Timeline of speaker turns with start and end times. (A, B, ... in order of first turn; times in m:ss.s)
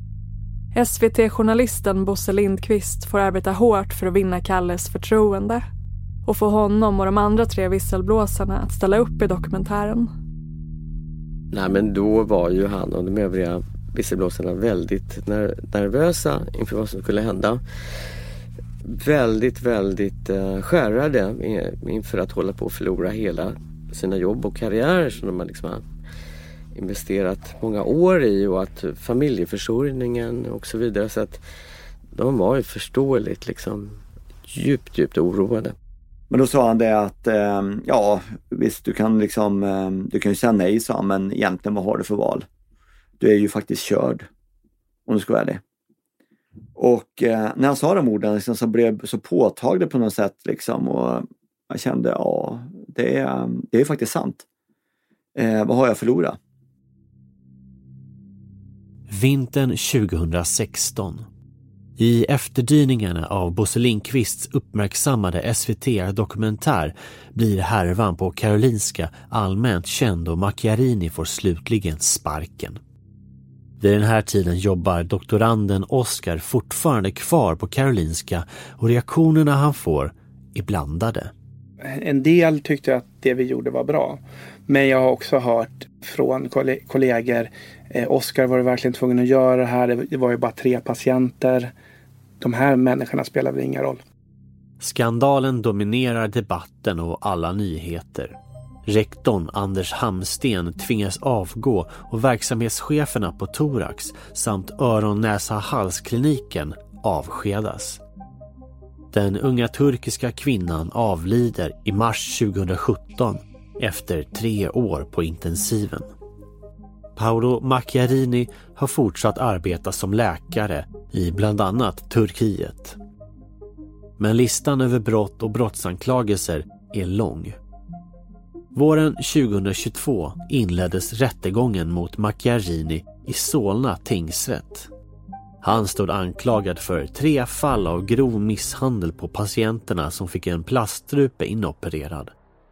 0:00.7-0:05.6 A
0:06.2-0:10.1 A
0:11.5-0:17.6 B
0:18.9-0:25.9 B
0:26.7-0:31.4 B
0:32.1-0:35.7 B
0:36.3-0:42.4 C
0:43.2-0:44.3 C
0:45.1-0:45.6 C
0:46.8-0:54.4 C
0:55.4-0:56.4 C
0:59.1-1:01.3 D
1:02.0-1:12.8 D
1:13.8-1:21.3 D
1:21.8-1:31.7 E
1:32.4-1:34.0 E
1:34.8-1:38.3 D
1:38.8-1:48.0 D
1:49.1-1:56.0 D
1:57.2-2:03.0 D
2:04.2-2:07.6 D
2:08.7-2:14.9 D
2:15.6-2:22.3 D